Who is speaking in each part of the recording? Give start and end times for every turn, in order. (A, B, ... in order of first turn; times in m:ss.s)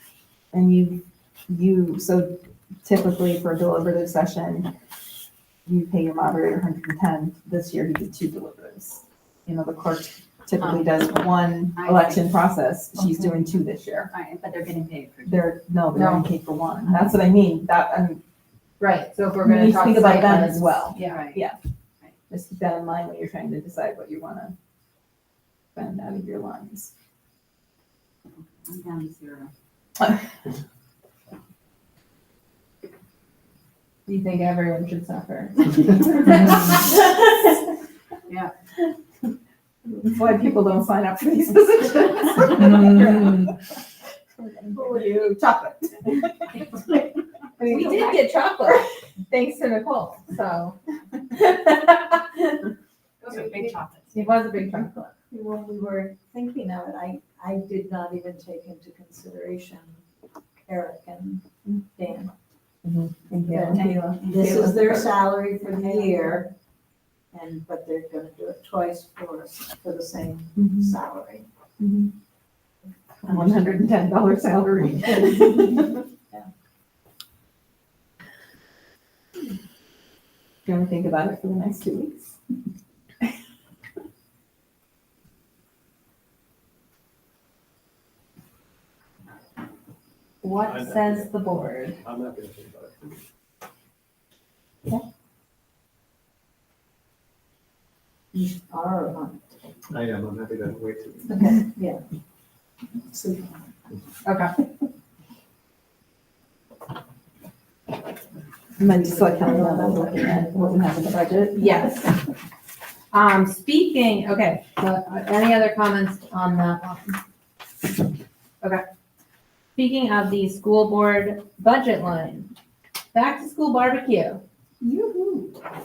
0:00.5-0:04.7 A
0:05.7-0:14.1 A
0:11.8-0:12.3 B
0:14.1-0:15.3 B
0:15.2-0:18.2 A
0:15.9-0:16.3 C
0:18.8-0:21.2 C
0:19.4-0:21.6 A
0:21.1-0:21.4 B
0:22.3-0:24.6 A
0:25.8-0:26.9 A
0:28.7-0:29.3 B
0:34.1-0:36.8 C
0:39.9-0:43.5 A
0:44.5-0:46.1 A
0:44.7-0:45.1 C
0:47.6-0:50.5 A
0:47.6-0:48.8 C
0:50.3-0:50.8 C
0:53.2-0:54.2 B
0:54.1-0:55.1 C
0:55.3-1:00.0 D
1:00.7-1:01.4 D
1:02.0-1:02.3 D
1:02.8-1:05.2 A
1:03.7-1:04.0 C
1:04.3-1:06.5 D
1:05.7-1:06.2 C
1:07.3-1:11.5 D
1:10.6-1:10.9 A
1:11.8-1:12.1 A
1:13.2-1:15.9 A
1:20.7-1:22.3 A
1:30.4-1:32.0 C
1:30.6-1:31.3 E
1:32.0-1:33.1 E
1:38.3-1:39.5 D
1:39.9-1:41.6 E
1:41.3-1:42.0 D
1:43.1-1:43.5 D
1:44.2-1:44.5 C
1:48.8-1:52.1 A
1:49.0-1:51.0 D
1:51.5-1:52.1 C
1:53.1-1:57.2 C
1:59.8-2:02.5 C
2:03.1-2:04.4 C
2:04.8-2:05.5 D